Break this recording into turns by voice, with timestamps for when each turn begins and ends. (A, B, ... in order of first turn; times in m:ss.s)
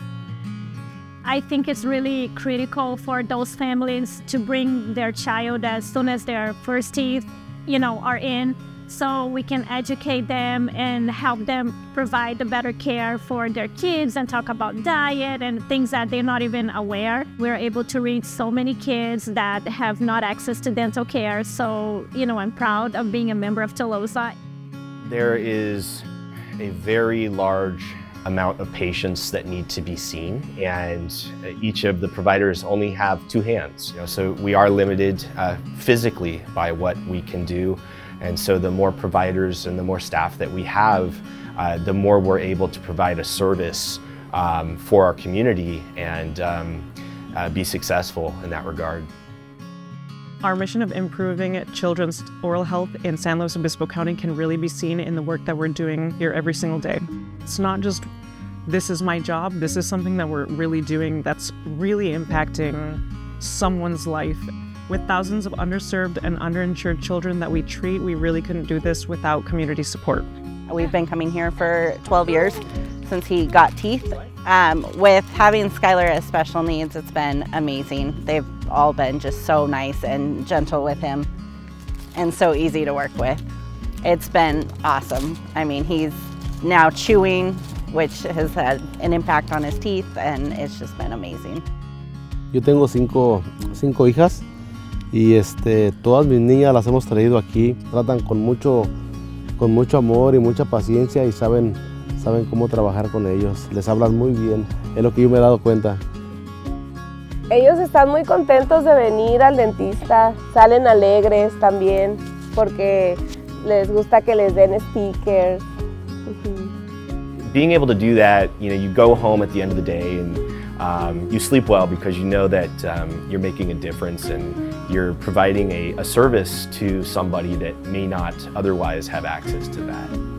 0:01.2-0:24.4 A
0:25.0-0:26.0 B
0:26.6-0:49.1 B
0:50.4-0:58.1 C
0:58.7-1:10.3 C
1:10.7-1:21.3 D
1:22.2-1:23.4 D
1:24.0-1:31.6 D
1:32.5-1:34.4 E
1:35.1-1:38.9 E
1:39.6-1:46.0 E
1:47.5-1:55.6 F
1:56.3-1:56.7 F
1:57.5-2:10.1 B